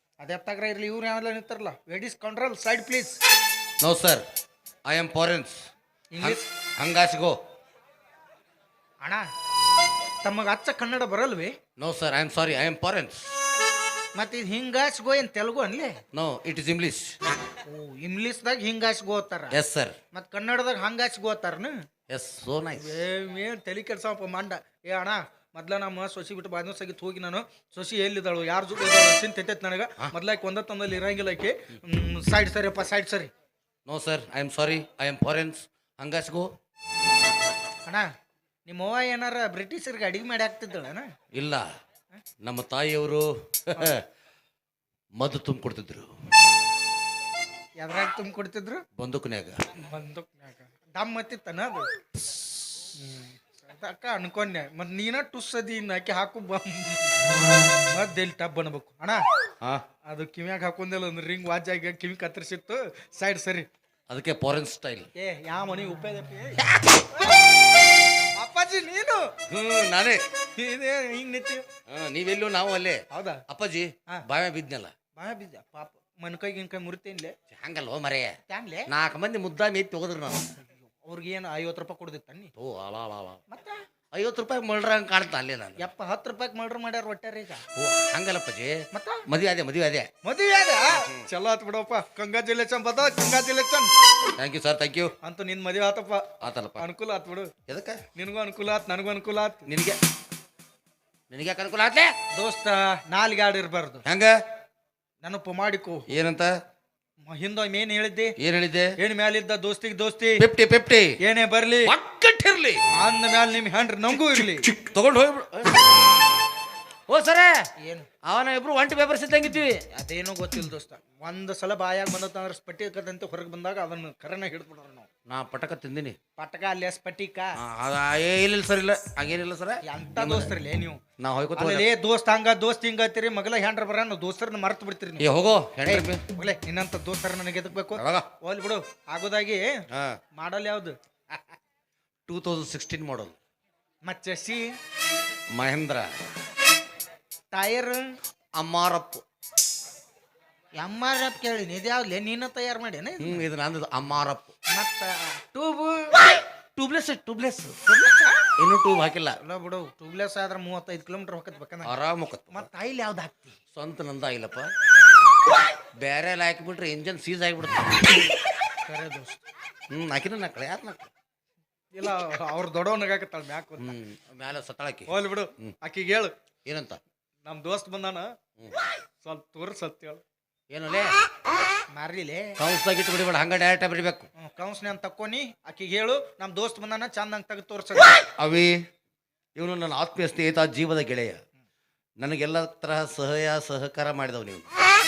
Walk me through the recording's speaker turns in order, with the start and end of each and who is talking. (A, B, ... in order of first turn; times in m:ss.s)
0:00.2-0:03.2 A
0:03.8-0:04.2 B
0:04.9-0:05.6 B
0:06.1-0:06.4 A
0:06.2-0:07.4 B
0:10.2-0:11.6 A
0:11.8-0:13.4 B
0:14.2-0:16.0 A
0:16.1-0:17.2 B
0:17.6-0:19.6 A
0:19.5-0:20.0 B
0:20.1-0:21.8 A
0:22.1-0:23.0 B
0:22.8-0:33.3 A
0:33.9-0:36.5 B
0:38.7-0:41.1 A
0:41.3-0:41.7 B
0:42.4-0:44.0 B
0:45.2-0:46.1 B
0:47.8-0:48.8 A
0:49.0-0:49.6 B
0:49.8-0:51.9 A
0:53.0-0:57.1 A
0:57.9-0:59.2 A
1:00.1-1:03.7 A
1:04.1-1:05.1 B
1:05.2-1:07.4 A
1:06.6-1:07.0 B
1:08.4-1:09.2 A
1:09.5-1:10.2 B
1:10.6-1:11.6 A
1:11.9-1:14.9 B
1:13.1-1:13.4 A
1:15.2-1:17.3 A
1:17.6-1:18.4 B
1:18.5-1:18.9 A
1:18.9-1:20.5 B
1:20.8-1:22.5 A
1:22.6-1:23.4 B
1:23.5-1:23.8 A
1:24.2-1:25.9 B
1:25.8-1:27.6 A
1:27.8-1:30.1 B
1:28.9-1:29.2 A
1:30.2-1:33.9 A
1:34.4-1:35.1 B
1:35.2-1:37.5 A
1:36.4-1:36.8 B
1:37.7-1:38.0 B
1:38.2-1:39.7 A
1:39.7-1:40.0 B
1:41.3-1:42.1 B
1:42.4-1:44.0 A
1:44.0-1:44.4 B
1:45.2-1:46.1 A
1:46.1-1:46.5 B
1:47.2-1:48.3 A
1:48.4-1:48.9 B
1:49.0-1:50.4 A
1:50.4-1:51.2 B
1:51.2-1:51.9 A
1:51.9-1:52.8 B
1:53.0-1:54.7 A
1:54.3-1:55.9 B
1:57.1-1:57.6 B
1:57.8-1:58.1 A
1:58.3-1:59.8 B
2:00.0-2:05.1 A
2:05.3-2:06.2 B
2:06.4-2:07.6 A
2:07.6-2:10.5 B
2:09.8-2:11.0 A
2:11.2-2:11.9 B
2:11.6-2:15.3 A
2:15.2-2:16.2 B
2:15.9-2:19.7 A
2:18.0-2:18.3 B
2:19.9-2:20.2 B
2:20.4-2:21.4 A
2:22.3-2:23.4 B
2:24.1-2:24.6 A
2:25.5-2:26.1 B
2:27.5-2:28.1 A
2:28.6-2:29.2 B
2:30.8-2:33.4 A
2:33.2-2:34.5 B
2:34.7-2:36.3 A
2:36.8-2:37.8 B
2:37.9-2:38.4 A
2:38.6-2:39.4 B
2:39.4-2:41.9 A
2:41.9-2:42.7 B
2:42.5-2:43.6 A
2:43.7-2:44.7 B
2:46.0-2:48.2 B
2:48.8-2:49.4 A
2:49.9-2:51.1 B
2:51.9-2:54.0 A
2:53.8-2:55.1 B
2:55.1-2:56.3 A
2:56.7-2:57.0 B
2:57.4-2:58.3 A
2:59.2-3:00.2 A
3:00.7-3:01.1 B
3:01.9-3:02.6 A
3:02.6-3:04.3 B
3:04.4-3:08.1 A
3:08.4-3:08.8 B
3:09.6-3:11.4 B
3:12.2-3:14.7 B